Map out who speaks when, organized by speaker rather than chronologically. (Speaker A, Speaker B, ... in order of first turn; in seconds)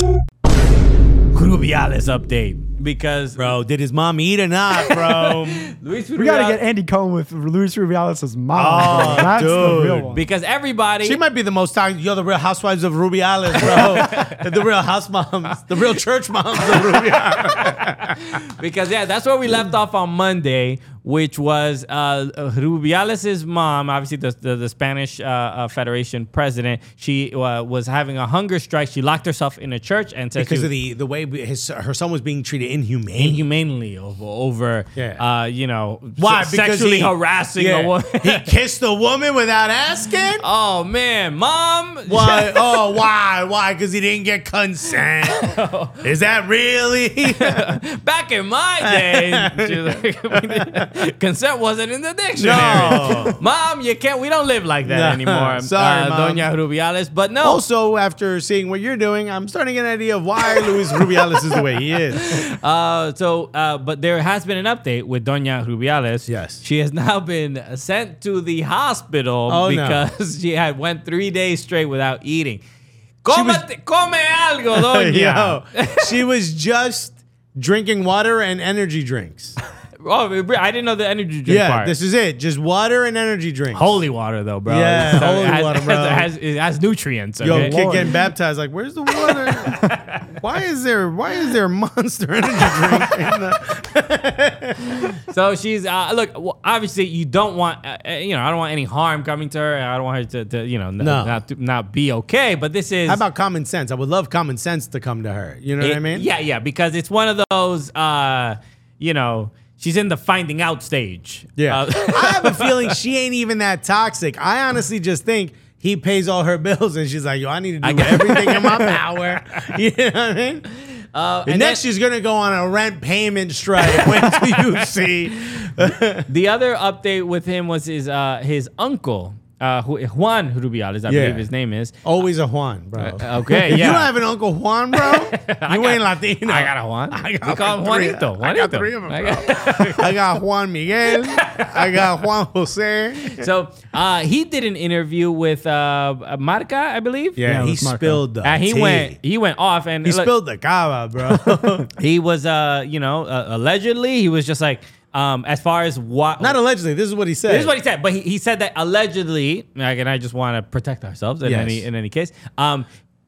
Speaker A: 1.3-3.4, 4.8-6.6, 10.1-11.2, 13.6-14.4, 16.7-30.7, 33.1-38.5, 40.4-42.9, 45.2-46.1, 47.4-57.6, 62.1-72.6, 73.2-76.2, 80.0-81.9, 83.7-87.8, 89.3-90.3, 95.3-103.2, 105.8-113.0, 117.8-119.0, 121.1-121.8, 123.8-124.7, 126.3-132.0, 133.0-134.1, 134.9-140.2, 141.1-142.2, 143.2-147.4, 148.4-150.3, 152.0-156.6, 157.5-162.9
Speaker B: 3.4-5.8, 8.6-10.1, 11.0-18.2, 30.4-33.4, 35.0-35.2, 36.2-40.5, 42.1-45.5, 46.0-47.6, 48.8-50.9, 52.4-53.4, 54.9-56.5, 57.4-62.4, 66.3-66.6, 69.5-70.0, 73.3-73.7, 74.7-79.6, 81.5-84.0, 84.7-86.3, 87.4-95.2, 101.0-101.4, 103.1-106.3, 111.6-120.7, 121.5-126.3, 131.1-131.5, 132.0-143.5, 147.4-149.2, 150.0-151.9, 156.4-157.7, 161.4-161.9
Speaker C: 6.2-10.2, 87.4-88.1, 147.4-148.2